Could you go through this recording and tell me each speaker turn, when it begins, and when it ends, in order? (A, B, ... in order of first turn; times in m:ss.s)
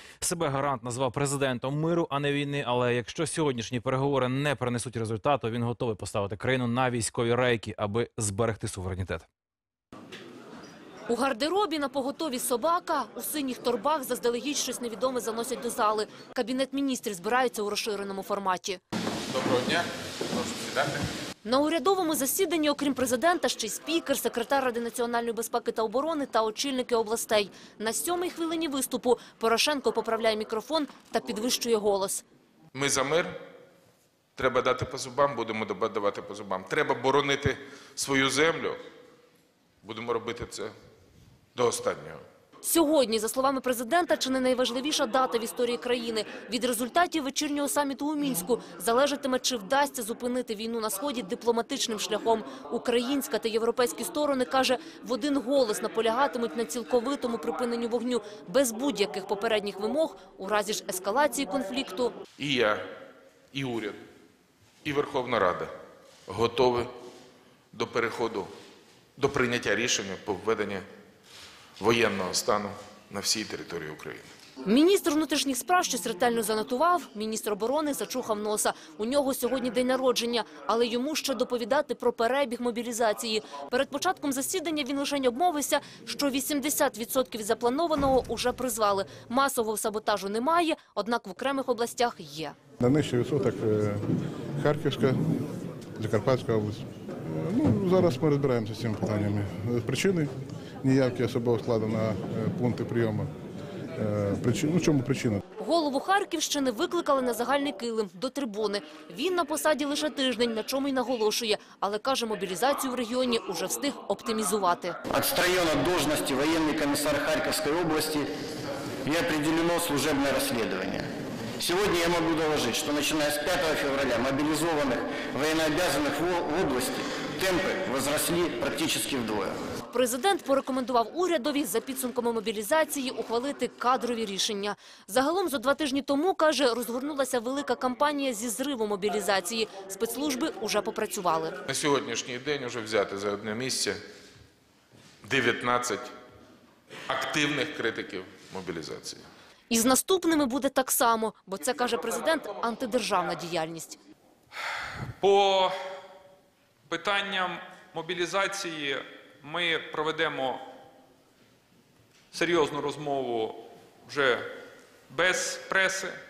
0:00.2-0:09.3 A
0:11.1-0:18.8 B
0:19.3-0:21.0 C
0:21.4-0:32.2 B
0:32.7-0:33.3 C
0:34.4-0:38.8 C
0:39.8-0:40.7 C
0:41.6-0:42.2 C
0:42.6-1:02.2 B
1:02.4-1:02.8 C
1:03.5-1:04.0 C
1:04.8-1:05.7 C
1:06.3-1:06.9 C
1:07.7-1:08.5 C
1:09.2-1:10.8 C
1:11.8-1:14.3 C
1:14.6-1:32.6 B
1:32.8-1:34.0 D
1:34.6-1:35.2 D
1:36.0-1:40.3 D
1:40.8-1:43.3 D
1:44.0-1:45.4 D
1:45.6-1:55.0 B
1:55.1-1:58.3 E
1:59.0-2:09.7 E
2:09.9-2:21.6 B
2:21.7-2:24.0 C
2:25.2-2:26.1 C
2:27.1-2:29.2 C
2:29.7-2:34.0 B
2:35.2-2:35.7 F
2:36.9-2:40.6 F
2:42.3-2:44.4 F
2:45.1-2:46.2 F